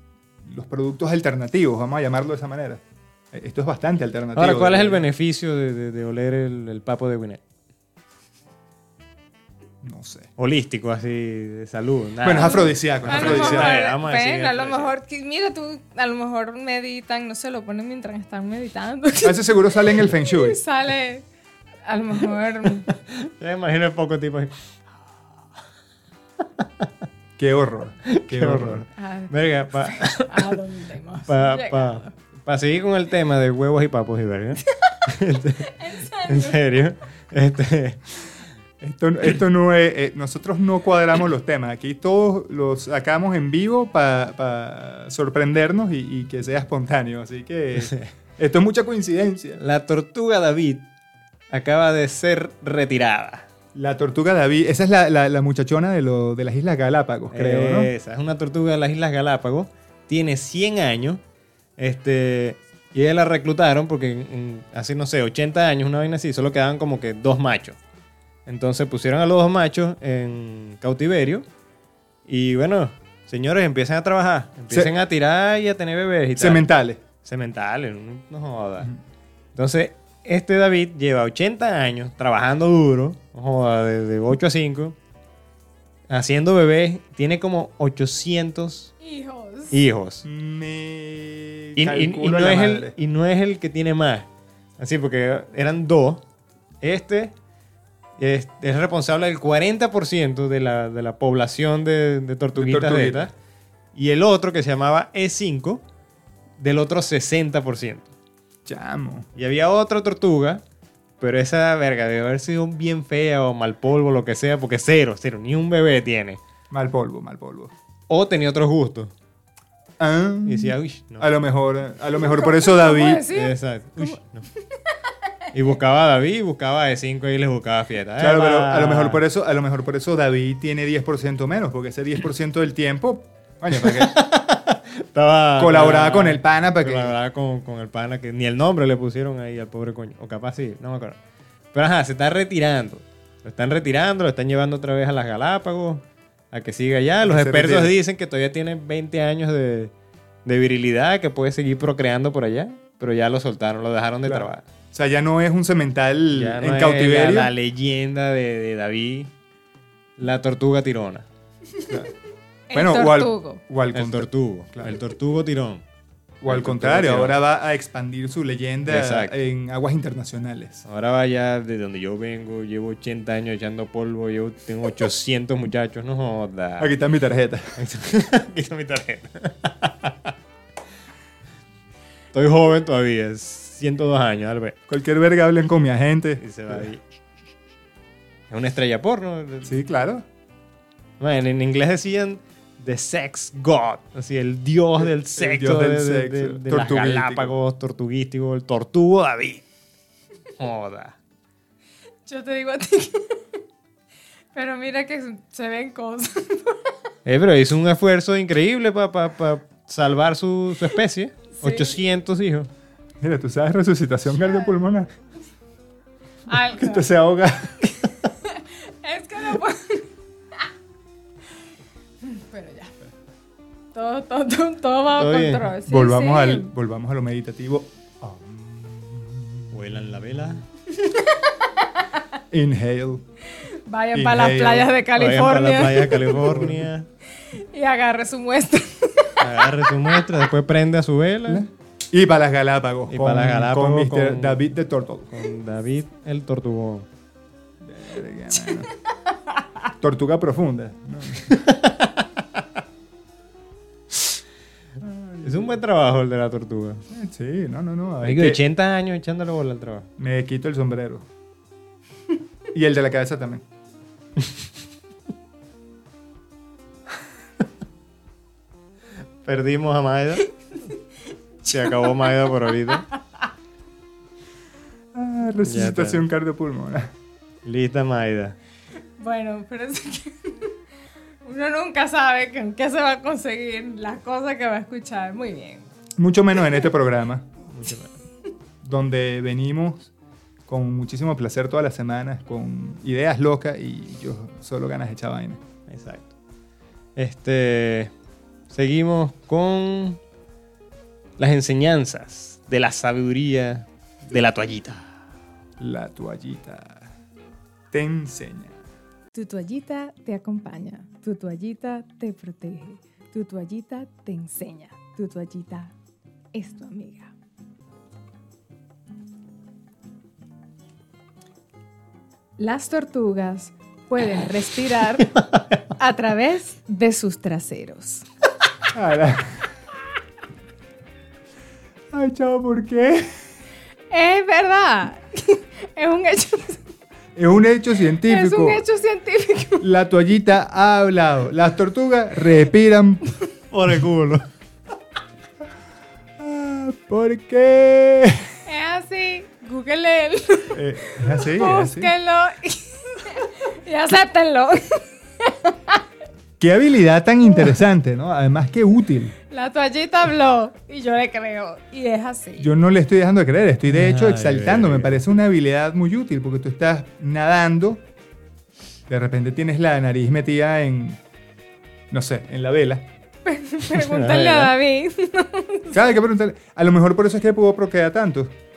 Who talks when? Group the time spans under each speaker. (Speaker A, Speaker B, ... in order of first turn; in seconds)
Speaker A: 0.4-5.1, 9.8-10.3, 12.2-13.8, 19.2-20.6, 27.4-28.9, 38.8-49.6, 53.8-57.9, 76.4-77.0, 90.2-93.0, 102.6-103.3, 108.7-109.3, 116.7-117.7, 120.0-123.3, 128.2-134.2, 135.6-137.2, 147.2-147.9, 154.2-157.5, 162.7-165.0, 166.4-170.8, 176.8-177.8, 184.9-186.9, 189.6-190.2, 195.0-197.6, 213.2-215.1, 216.8-217.9, 225.8-230.6, 232.5-233.2, 234.1-235.0, 236.3-236.9, 241.5-245.5, 247.8-248.9, 250.0-251.6, 255.0-255.7, 257.1-258.6, 260.2-261.3, 262.7-263.6, 275.1-277.1, 286.2-287.5, 288.8-290.1, 290.7-295.6, 305.8-307.1, 307.9-308.8, 328.9-329.6, 332.1-333.3, 337.4-338.8, 339.8-343.2, 346.4-348.5, 350.7-352.1, 356.6-359.3, 362.6-368.0, 369.1-371.2, 372.1-373.1, 375.9-378.5
Speaker B: 4.3-7.4, 10.4-14.9, 22.9-24.6, 26.6-26.9, 28.1-30.6, 31.3-38.2, 47.8-48.1, 49.6-50.9, 51.5-53.5, 57.3-61.2, 61.8-67.8, 68.5-71.5, 72.3-76.7, 77.2-78.9, 79.5-85.0, 86.1-88.9, 89.7-90.2, 91.8-94.3, 94.8-96.2, 96.8-97.3, 98.2-103.3, 104.0-105.8, 106.6-108.1, 109.4-110.6, 111.2-116.4, 118.1-119.1, 120.5-121.3, 123.3-124.5, 125.5-129.2, 133.7-141.2, 141.7-149.9, 150.5-154.6, 156.3-159.3, 160.2-161.3, 163.9-165.8, 166.5-167.3, 168.9-169.4, 170.9-176.9, 177.8-180.3, 182.3-184.8, 186.4-187.0, 188.5-189.8, 191.2-199.6, 200.6-201.2, 207.2-212.7, 225.2-225.7, 229.7-230.7, 235.1-237.1, 239.4-241.6, 243.1-244.6, 245.3-247.1, 251.5-252.2, 255.4-257.0, 258.2-260.1, 269.4-270.5, 271.7-273.1, 275.6-276.2, 277.6-278.6, 287.7-288.1, 295.9-296.3, 297.2-298.1, 298.7-300.2, 301.4-305.1, 343.7-344.4, 363.9-365.2, 373.9-374.7
Speaker C: 12.4-21.2, 21.9-22.9, 29.0-32.1, 34.7-35.0, 35.6-36.8, 89.0-89.8, 122.2-125.0, 162.7-163.6, 202.3-203.4, 204.5-206.9, 211.6-211.9, 216.5-217.1, 218.2-220.1, 222.2-223.0, 223.9-226.7, 231.1-232.3, 233.6-236.4, 237.4-240.4, 248.5-248.8, 271.6-272.5, 273.1-273.4, 279.2-280.7, 281.4-285.9, 309.3-315.9, 316.5-317.3, 322.6-325.3, 326.0-328.3, 334.1-336.8, 338.2-339.9, 348.7-356.0, 359.5-362.7, 373.4-376.0